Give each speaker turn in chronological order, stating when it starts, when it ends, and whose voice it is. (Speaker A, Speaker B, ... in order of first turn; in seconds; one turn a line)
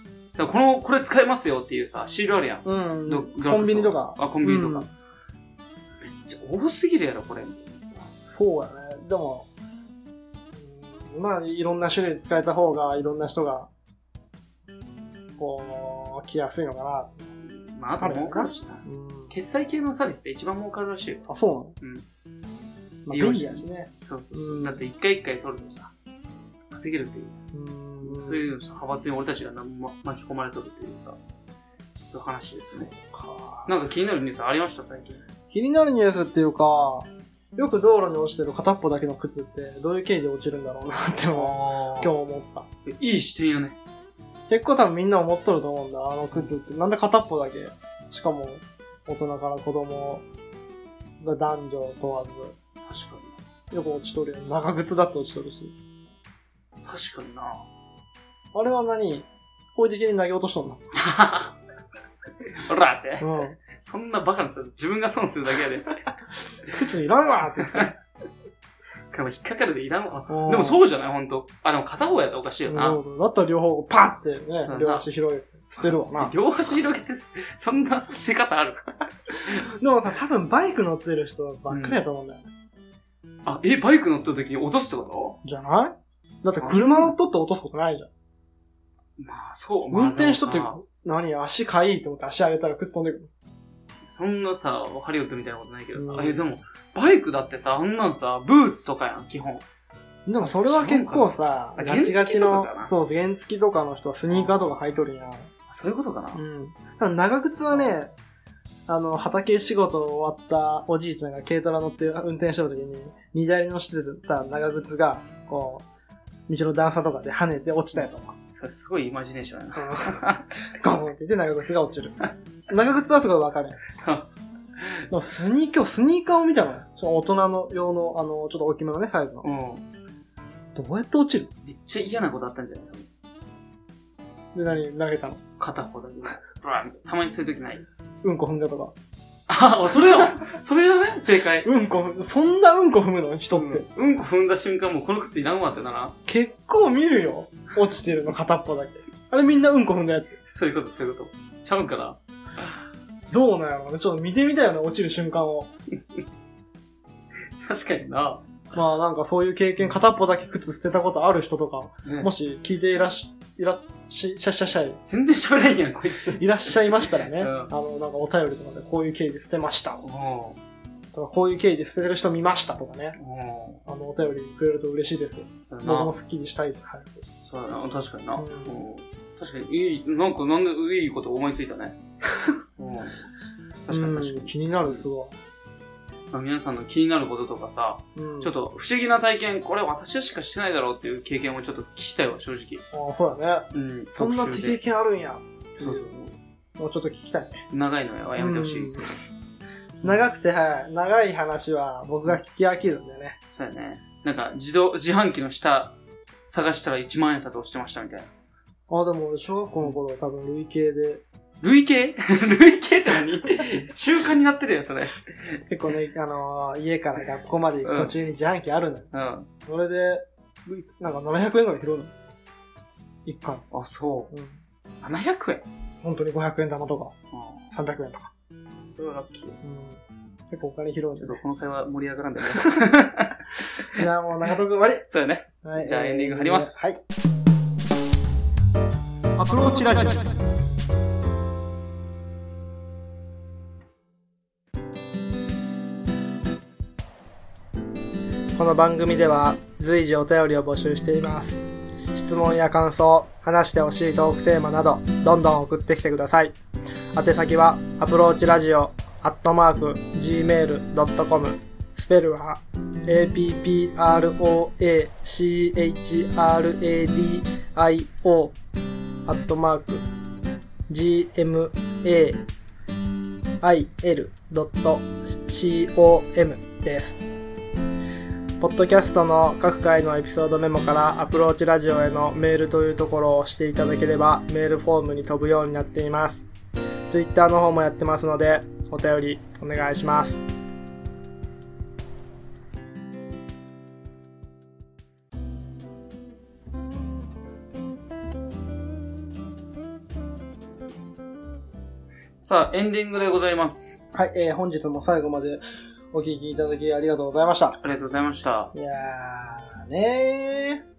Speaker A: 0.4-4.9
Speaker B: 2.6-4.9
Speaker A: 6.0-8.1
Speaker B: 8.3-9.5
Speaker B: 10.5-13.7
Speaker B: 15.4-17.3
Speaker A: 17.4-21.3
Speaker B: 18.0-19.3
Speaker B: 21.3-21.8
Speaker A: 21.8-22.1
Speaker B: 23.0-24.8
Speaker A: 23.1-25.9
Speaker A: 26.7-27.4
Speaker B: 27.5-28.5
Speaker A: 28.0-31.2
Speaker A: 32.0-32.9
Speaker B: 32.7-33.7
Speaker A: 33.6-35.2
Speaker B: 35.5-42.7
Speaker A: 41.3-42.1
Speaker A: 42.8-43.8
Speaker B: 44.5-50.2
Speaker B: 51.2-52.6
Speaker A: 52.8-53.4
Speaker B: 53.7-55.7
Speaker A: 56.8-57.6
Speaker B: 58.5-60.8
Speaker A: 60.9-61.5
Speaker A: 62.5-66.0
Speaker B: 63.2-63.6
Speaker B: 66.7-67.9
Speaker A: 67.6-67.9
Speaker A: 69.1-73.0
Speaker B: 70.3-70.8
Speaker B: 72.7-76.3
Speaker A: 74.6-75.1
Speaker A: 75.8-79.7
Speaker B: 79.5-82.4
Speaker A: 81.7-82.0
Speaker A: 83.5-85.4
Speaker B: 85.4-88.1
Speaker A: 86.4-87.1
Speaker A: 89.2-90.8
Speaker B: 89.9-93.3
Speaker A: 94.0-99.6
Speaker B: 95.9-96.4
Speaker B: 100.2-105.5
Speaker A: 100.4-102.9
Speaker A: 104.3-104.6
Speaker A: 105.7-106.4
Speaker B: 106.3-108.1
Speaker B: 108.9-115.8
Speaker B: 116.5-118.3
Speaker A: 118.4-120.5
Speaker B: 119.8-120.2
Speaker B: 120.7-122.2
Speaker B: 122.7-123.8
Speaker A: 124.0-125.0
Speaker B: 125.1-129.4
Speaker A: 129.4-129.8
Speaker B: 130.7-131.5
Speaker A: 131.6-133.1
Speaker B: 134.5-135.4
Speaker A: 135.6-137.9
Speaker B: 138.2-138.9
Speaker A: 139.5-141.7
Speaker B: 141.6-143.8
Speaker A: 143.5-146.2
Speaker B: 146.3-150.4
Speaker A: 150.4-152.2
Speaker B: 153.3-155.7
Speaker A: 157.6-158.5
Speaker B: 158.7-165.0
Speaker A: 162.0-162.3
Speaker A: 165.0-167.7
Speaker B: 166.4-170.0
Speaker A: 170.0-170.6
Speaker B: 171.1-173.2
Speaker A: 173.2-173.8
Speaker B: 173.9-177.2
Speaker A: 175.7-176.1
Speaker A: 177.4-182.0
Speaker B: 178.3-178.8
Speaker A: 182.8-183.2
Speaker A: 183.9-185.0
Speaker B: 183.9-185.4
Speaker A: 186.3-192.8
Speaker B: 188.2-188.5
Speaker B: 192.9-196.1
Speaker A: 193.7-194.8
Speaker A: 195.8-196.4
Speaker B: 196.8-197.6
Speaker A: 197.7-199.2
Speaker B: 198.3-199.0
Speaker B: 200.0-203.4
Speaker A: 203.5-208.3
Speaker B: 208.9-211.2
Speaker A: 211.6-215.6
Speaker B: 215.7-219.1
Speaker A: 217.8-218.1
Speaker A: 219.1-219.5
Speaker B: 219.7-222.1
Speaker B: 223.2-223.6
Speaker A: 223.7-224.3
Speaker B: 224.3-224.6
Speaker A: 225.0-225.7
Speaker B: 226.0-227.1
Speaker A: 227.3-227.7
Speaker B: 227.7-228.3
Speaker A: 229.0-229.6
Speaker B: 229.6-231.4
Speaker A: 231.2-234.1
Speaker B: 232.5-232.9
Speaker B: 233.8-235.0
Speaker A: 235.1-236.8
Speaker B: 235.6-237.0
Speaker B: 239.3-240.3
Speaker B: 248.5-256.6
Speaker B: 257.1-268.5
Speaker B: 269.2-270.0
Speaker B: 270.9-272.4
Speaker B: 273.6-277.2
Speaker B: 278.6-286.4
Speaker B: 287.1-290.4
Speaker A: 302.4-304.0
Speaker B: 304.1-307.8
Speaker A: 307.8-308.7
Speaker B: 308.7-310.8